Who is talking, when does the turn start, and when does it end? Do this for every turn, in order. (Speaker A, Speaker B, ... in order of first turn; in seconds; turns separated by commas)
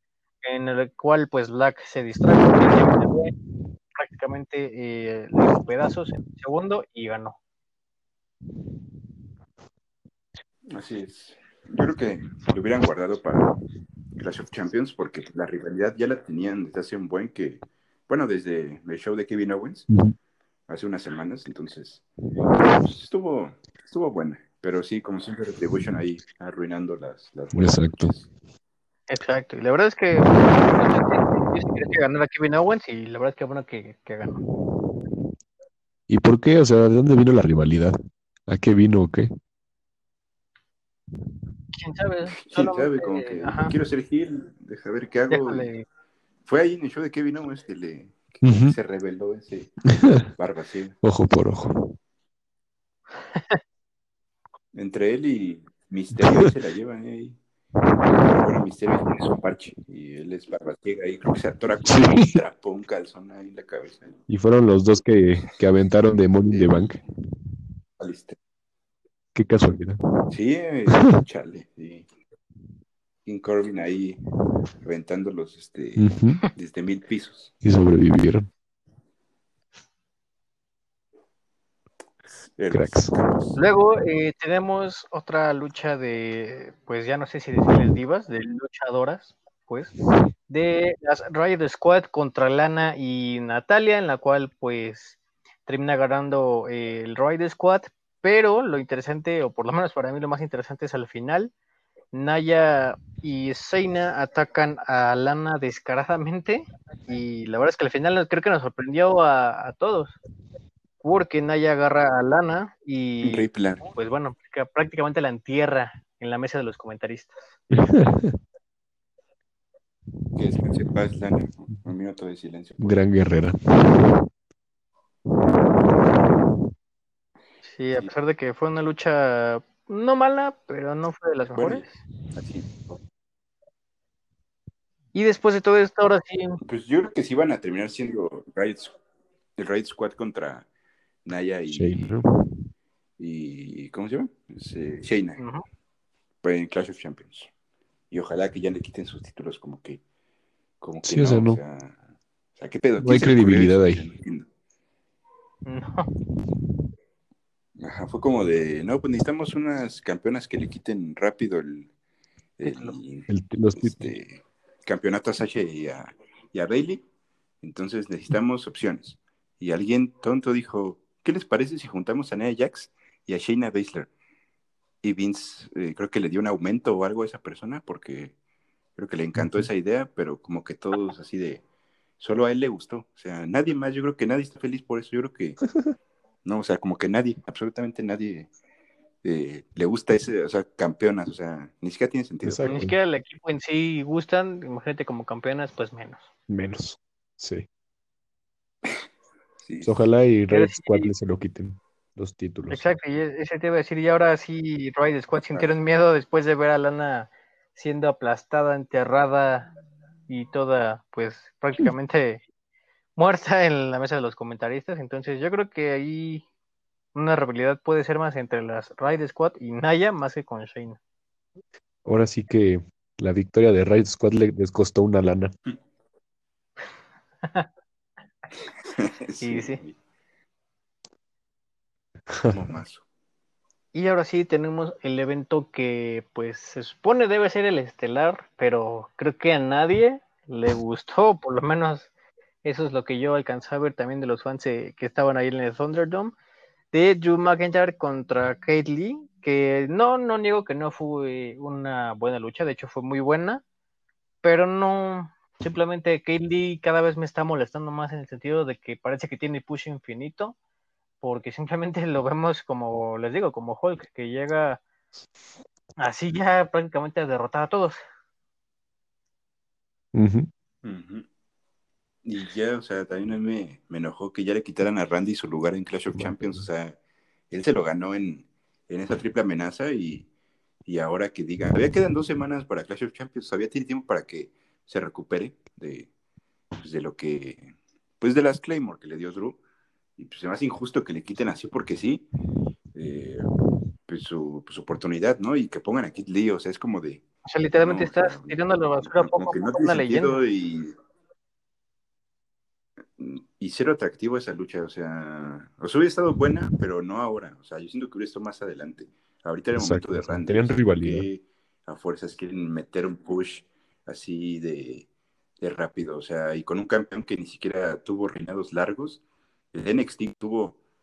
Speaker A: 0.4-3.3, Speaker A: 3.9-7.4, Speaker B: 10.7-13.6, Speaker B: 14.2-19.9, Speaker C: 19.9-20.1, Speaker B: 20.7-22.1, Speaker B: 22.6-28.3, Speaker C: 27.5-28.1, Speaker A: 29.1-34.4, Speaker C: 36.1-38.0, Speaker C: 38.5-39.3, Speaker A: 41.7-43.7, Speaker B: 42.4-45.7, Speaker A: 45.3-45.9, Speaker B: 46.4-49.8, Speaker C: 48.4-48.7, Speaker C: 49.9-50.3, Speaker B: 50.3-51.0, Speaker C: 51.0-51.9, Speaker B: 54.7-57.4, Speaker B: 58.1-64.1, Speaker C: 61.9-62.4, Speaker C: 64.3-67.0, Speaker B: 66.5-66.8, Speaker B: 68.0-68.4, Speaker C: 69.3-70.0, Speaker B: 70.3-72.1, Speaker C: 70.9-71.2, Speaker B: 73.2-74.2, Speaker B: 74.8-77.5, Speaker C: 76.0-76.4, Speaker C: 77.6-78.5, Speaker B: 82.6-83.6, Speaker C: 82.7-83.1, Speaker A: 83.6-89.9, Speaker A: 90.5-101.5, Speaker A: 102.1-110.2, Speaker A: 111.0-117.6, Speaker B: 113.2-113.9, Speaker C: 117.7-118.4, Speaker B: 120.4-123.0, Speaker C: 122.8-124.2, Speaker A: 127.6-131.9, Speaker B: 131.6-132.7, Speaker A: 135.1-136.6, Speaker B: 136.6-139.0, Speaker B: 139.6-140.7, Speaker B: 141.2-142.1, Speaker C: 141.7-142.7, Speaker B: 143.2-145.4, Speaker A: 145.4-145.6, Speaker B: 146.4-147.5, Speaker B: 148.1-150.0, Speaker B: 150.8-152.0, Speaker C: 151.0-151.6, Speaker B: 152.6-154.5, Speaker C: 153.0-154.1, Speaker A: 155.7-156.1, Speaker B: 157.8-161.9, Speaker B: 162.6-167.0, Speaker C: 163.3-164.1, Speaker B: 167.6-174.1, Speaker B: 175.0-178.3, Speaker B: 178.9-181.6, Speaker C: 179.4-179.7, Speaker B: 182.2-185.6, Speaker B: 186.4-188.5, Speaker B: 189.2-192.8, Speaker C: 192.4-192.9, Speaker A: 192.7-196.3, Speaker C: 196.5-197.7, Speaker B: 199.6-200.0, Speaker C: 199.8-202.9, Speaker A: 200.5-201.1, Speaker A: 202.7-209.7, Speaker B: 205.4-205.7, Speaker A: 210.3-212.4, Speaker A: 213.2-216.4, Speaker A: 217.1-221.0, Speaker C: 222.1-225.5, Speaker A: 227.4-227.7, Speaker B: 229.0-230.0, Speaker A: 229.4-229.8, Speaker C: 232.3-232.6, Speaker B: 232.5-233.1, Speaker A: 233.9-242.1, Speaker A: 242.6-246.3, Speaker A: 246.9-253.6, Speaker A: 254.4-260.6, Speaker A: 261.2-264.8, Speaker A: 266.0-268.0, Speaker C: 270.1-270.5, Speaker B: 270.8-271.3, Speaker B: 272.2-277.0, Speaker C: 276.1-276.6, Speaker B: 277.5-280.3, Speaker B: 280.9-286.1, Speaker B: 286.8-289.6, Speaker B: 290.2-292.2, Speaker B: 292.9-293.5, Speaker B: 294.1-297.2, Speaker A: 297.5-300.4, Speaker B: 297.8-300.9, Speaker B: 303.1-315.1, Speaker C: 309.7-311.3, Speaker B: 315.6-319.2, Speaker B: 319.7-320.8